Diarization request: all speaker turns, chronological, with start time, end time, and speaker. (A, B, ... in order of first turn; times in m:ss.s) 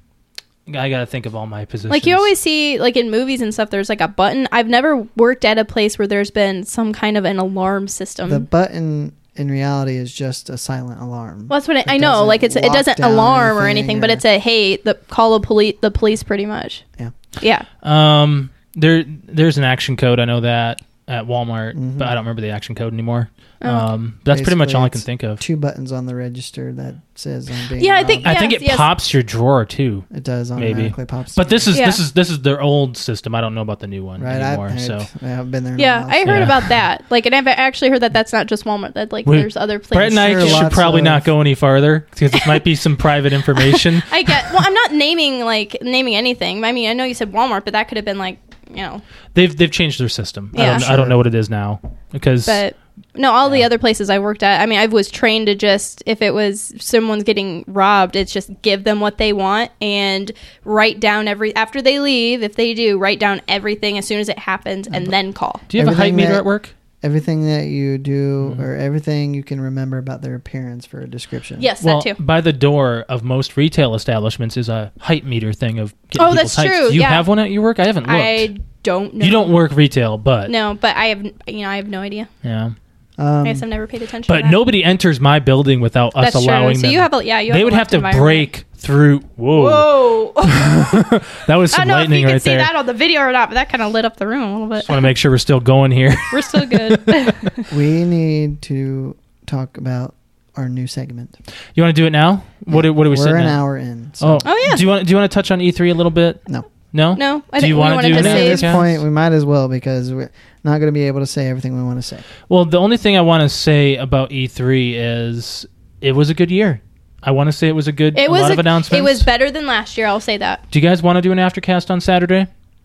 0:00.7-0:02.3 A
0:01.9-0:08.5 B
0:08.3-0:14.2 C
0:11.5-0:16.8 B
0:17.4-0:17.7 B
0:17.8-0:25.4 A
0:21.7-0:22.1 C
0:24.3-0:28.4 C
0:27.8-0:28.9 B
0:28.2-0:35.1 A
0:30.1-0:31.7 C
0:31.7-0:32.0 B
0:34.2-0:36.5 C
0:35.8-0:40.7 B
0:36.3-0:36.7 A
0:39.3-0:44.5 A
0:40.1-0:41.3 C
0:42.3-0:42.6 B
0:43.6-0:49.0 B
0:49.3-0:52.6 A
0:50.5-0:50.9 B
0:50.6-0:51.2 C
0:52.5-1:05.6 B
1:05.7-1:06.7 A
1:05.8-1:06.5 C
1:07.0-1:11.7 C
1:11.6-1:12.2 B
1:11.8-1:18.5 A
1:16.2-1:17.3 B
1:18.0-1:19.6 B
1:19.2-1:20.5 A
1:20.5-1:22.3 B
1:22.4-1:22.8 A
1:23.2-1:23.6 C
1:23.4-1:24.6 B
1:24.3-1:32.7 A
1:26.2-1:28.5 B
1:29.5-1:30.9 B
1:31.7-1:35.1 B
1:34.8-1:37.5 A
1:36.3-1:37.7 B
1:37.7-1:41.4 C
1:41.8-1:43.6 A
1:42.7-1:44.5 C
1:44.2-1:46.4 A
1:44.4-1:44.8 B
1:46.9-1:49.0 A
1:47.2-1:48.8 B
1:48.1-1:52.2 C
1:52.5-1:59.3 A
1:58.2-2:00.6 B
2:00.7-2:02.5 A